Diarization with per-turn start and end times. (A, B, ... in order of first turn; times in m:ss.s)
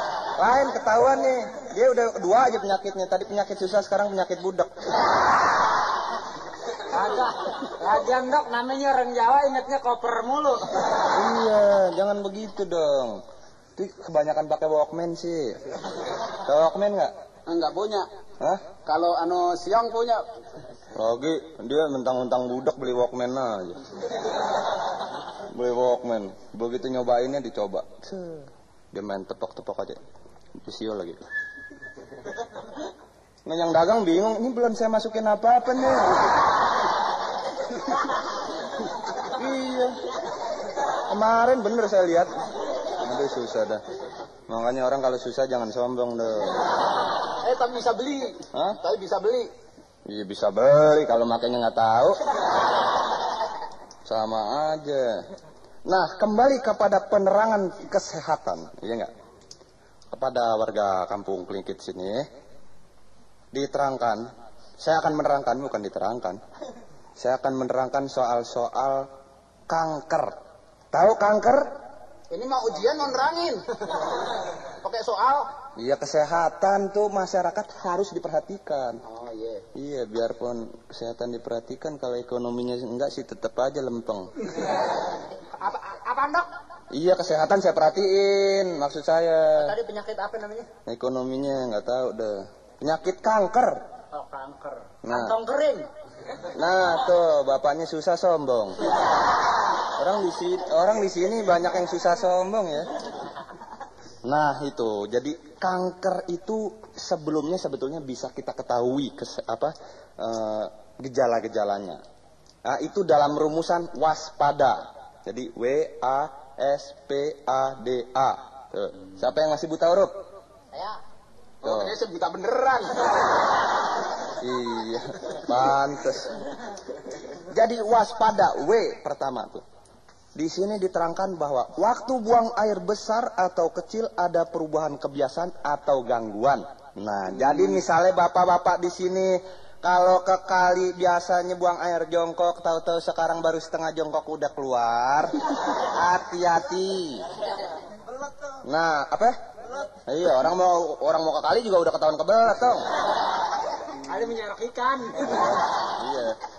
0:00.3-0:04.7 A
0:06.9-0:10.7 B
0:11.0-0:13.2 A
0:13.8-0:15.6 A
0:16.3-0:17.1 A
0:17.5-0:18.0 C
0:18.8-0:20.2 C
0:21.0-0:23.9 A
0:25.5-0:30.0 A
0:30.6-0:31.2 A
0:33.5-0:36.5 A
0:39.2-0:40.0 A
0:41.1-0:42.3 A
0:43.0-0:43.8 A
0:44.5-0:46.6 A
0:47.4-0:49.5 C
0:48.5-0:48.8 A
0:50.1-0:52.2 A
0:54.0-0:55.2 A
0:55.9-0:59.1 A
1:00.1-1:02.2 A
1:03.5-1:04.2 A
1:04.8-1:06.4 A
1:07.2-1:09.1 A
1:09.7-1:10.3 A
1:10.9-1:11.6 A
1:12.3-1:14.2 C
1:14.8-1:15.5 C
1:15.8-1:19.0 A
1:19.0-1:19.6 C
1:19.7-1:24.3 A
1:25.6-1:26.5 B
1:26.9-1:29.8 A
1:29.6-1:30.7 B
1:30.8-1:33.8 A
1:34.1-1:35.9 B
1:35.0-1:35.3 A
1:36.5-1:38.8 A
1:40.0-1:42.9 A
1:44.2-1:52.0 A
1:52.6-2:00.1 A
2:01.6-2:03.2 C
2:01.6-2:02.0 A
2:04.4-2:06.5 A
2:07.5-2:09.6 A
2:10.4-2:27.2 A
2:28.6-2:29.4 A
2:30.0-2:32.8 A
2:34.0-2:35.6 B
2:35.9-2:36.4 A